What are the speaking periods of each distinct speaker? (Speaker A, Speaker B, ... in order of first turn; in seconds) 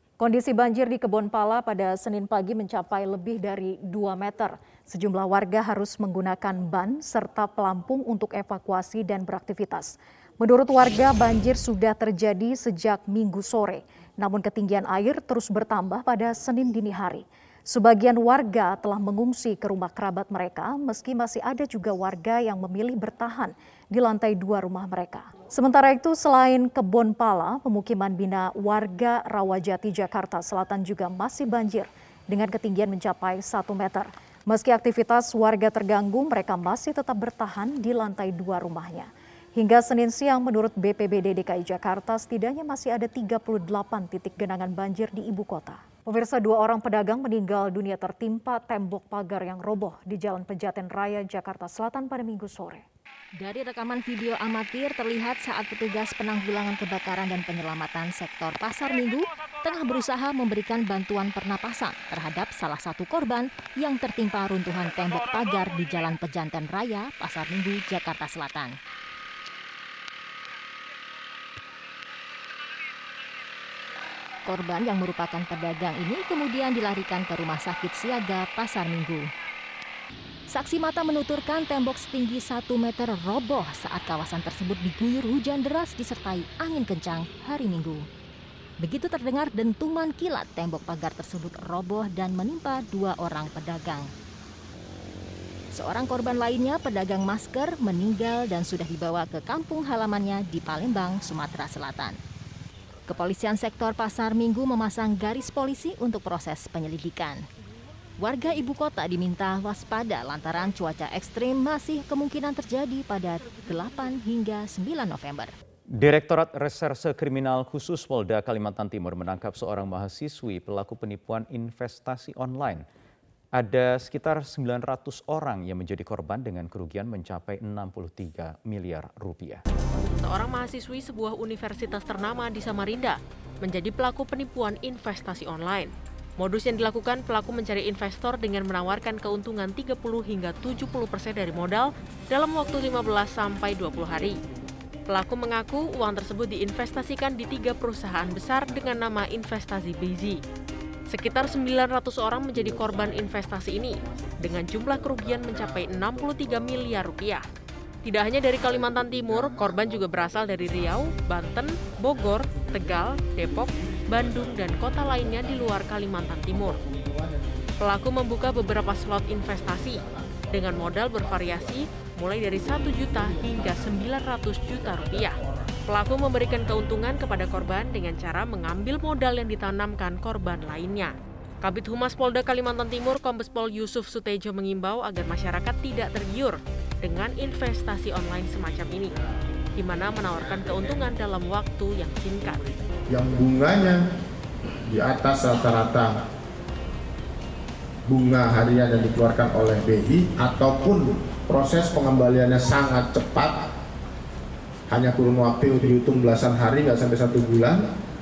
Speaker A: 0.2-52.8
Speaker B: 53.4-68.8, 74.4-79.3, 80.5-88.1, 88.8-94.1, 95.7-102.2, 103.1-107.4, 108.2-115.5
Speaker C: 115.9-122.8, 123.5-129.6
Speaker D: 130.0-144.4, 145.1-150.4, 151.1-157.4, 158.0-166.8, 167.8-189.1, 189.8-192.6
Speaker E: 152.7-153.3, 154.0-157.0, 158.6-161.0, 161.8-165.8, 166.5-168.0, 169.4-171.8, 172.6-175.8, 176.3-176.8, 190.2-191.1, 193.1-194.0, 194.9-196.2, 198.1-203.6, 204.9-207.8